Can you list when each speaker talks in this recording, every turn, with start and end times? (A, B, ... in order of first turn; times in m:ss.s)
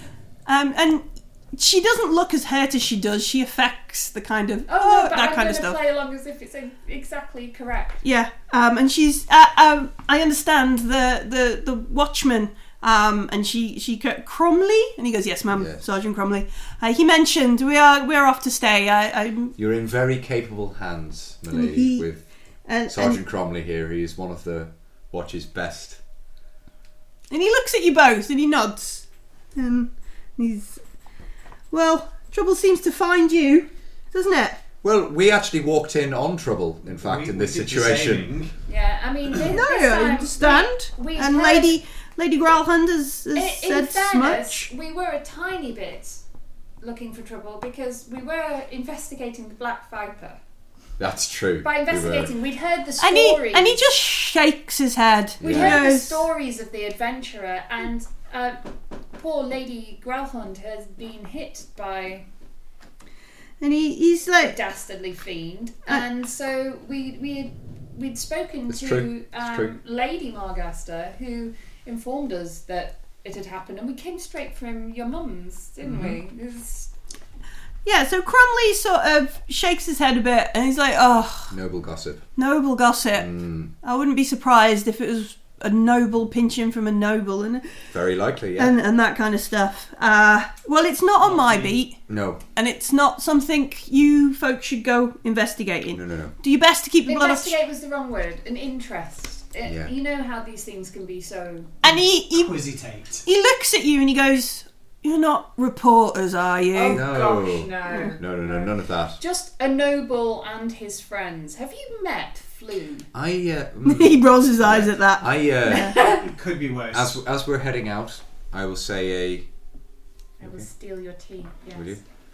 0:00.4-0:05.8 A
0:04.7-0:08.0 B
0:08.0-0:19.6 A
0:15.5-0:15.8 C
0:19.6-0:22.2 C
0:21.5-0:22.1 A
0:22.7-0:23.2 A
0:22.9-0:26.0 C
0:27.3-0:29.0 A
0:29.6-0:30.8 A
0:31.7-0:34.6 A
0:34.8-0:38.3 C
0:36.8-0:38.6 D
0:38.7-0:41.8 B
0:39.5-0:44.7 A
0:43.3-0:46.2 B
0:46.8-0:50.4 B
0:51.0-0:52.3 C
0:51.6-0:53.8 B
0:53.0-0:56.3 A
0:55.4-0:55.8 C
0:55.4-0:58.6 B
0:59.2-1:02.3 B
1:03.6-1:04.6 A
1:04.4-1:16.9 B
1:08.7-1:09.7 C
1:17.8-1:21.6 A
1:21.5-1:22.3 C
1:22.4-1:27.8 A
1:23.1-1:23.7 C
1:27.9-1:28.8 C
1:28.6-1:32.0 A
1:31.2-1:31.8 D
1:32.1-1:32.4 C
1:32.6-1:37.6 A
1:35.9-1:36.4 C
1:37.1-1:41.7 B
1:39.6-1:39.9 C
1:41.8-1:42.6 A
1:41.8-1:43.2 D
1:43.2-1:47.0 A
1:46.7-1:53.1 B
1:46.9-1:49.2 C
1:53.1-1:56.0 C
1:53.8-1:56.0 A
1:55.7-1:56.2 B
1:56.0-1:57.2 D
1:56.9-1:59.5 C
2:00.4-2:02.0 B
2:00.4-2:00.7 C
2:01.7-2:02.0 C